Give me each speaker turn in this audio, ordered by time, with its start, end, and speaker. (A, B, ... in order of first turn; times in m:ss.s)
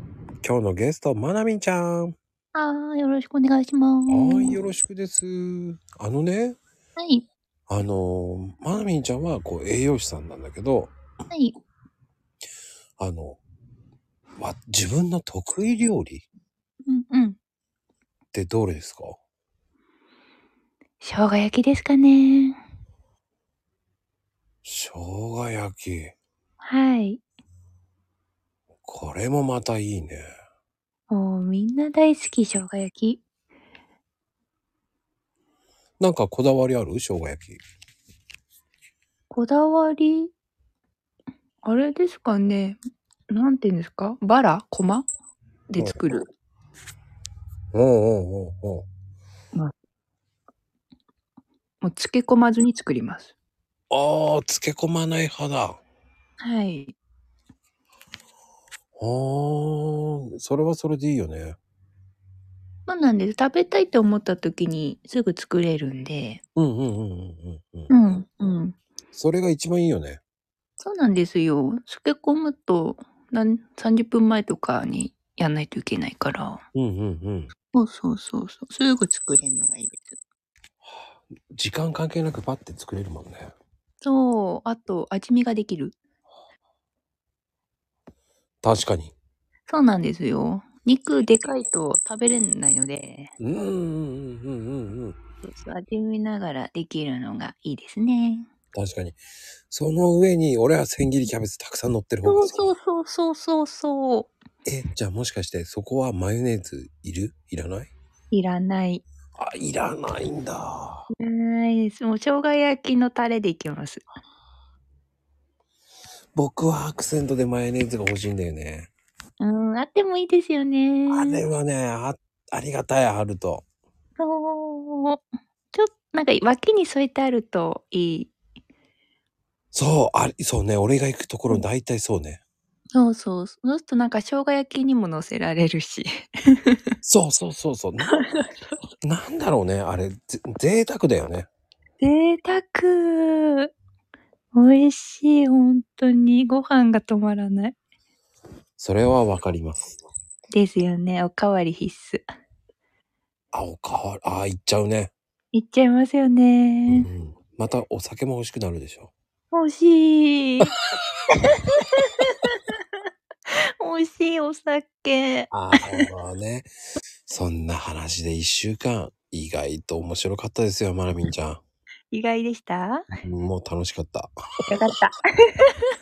0:00.4-0:02.2 A
0:02.5-0:04.6 B
0:04.1-0:06.6 A
0:07.0-0:07.2 B
0:07.7-0:10.9 A
0:11.3-0:11.6 B
0:13.0-0:13.4 A
0:14.4-0:16.3 A
0:16.9-0:17.4 B
0:18.3-0:19.2 A
0:21.0-0:22.6 B
0:24.6-0:26.1 A
0:26.6-0:27.2 B
0:28.8-0:30.2 A
0:31.1-0:33.2 B
0:36.0-0:37.6 A
0:39.3-0:40.3 B
0:41.6-0:42.8 B
0:43.3-0:45.1 B
0:45.7-0:46.3 B
0:47.7-0:48.8 A
0:51.8-0:53.3 B
0:53.9-0:55.8 A
0:56.4-0:56.9 B
0:59.0-1:01.6 A
1:02.9-1:06.4 B
1:06.6-1:07.9 A
1:07.9-1:08.8 B
1:09.1-1:10.2 A
1:10.8-1:16.6 B
1:16.7-1:17.5 A
1:17.7-1:20.2 B
1:21.5-1:23.5 A
1:24.0-1:26.0 B
1:28.6-1:29.1 A
1:29.7-1:33.3 B
1:33.4-1:35.2 A
1:35.4-1:38.5 B
1:38.7-1:39.2 A
1:39.7-1:42.6 A
1:42.2-1:44.3 B
1:44.6-1:47.9 A
1:48.3-1:49.0 B
1:49.4-1:51.1 A
1:51.1-1:54.0 B
1:56.4-1:58.9 A
1:59.4-2:01.4 B
2:01.1-2:03.6 A
2:04.2-2:08.3 B
2:09.7-2:12.4 A
2:12.9-2:16.8 B
2:17.0-2:18.2 A
2:18.1-2:18.5 B
2:19.0-2:21.5 A
2:22.0-2:23.7 B
2:24.5-2:27.8 B
2:28.8-2:30.0 A
2:30.5-2:32.2 B
2:33.5-2:35.1 A
2:35.5-2:37.1 B
2:36.9-2:39.1 A
2:39.5-2:40.7 B
2:41.4-2:42.8 B
2:43.5-2:46.1 B
2:45.5-2:46.7 A
2:47.3-2:51.6 A
2:52.1-2:53.0 B
2:53.2-2:54.3 A
2:54.7-2:55.7 B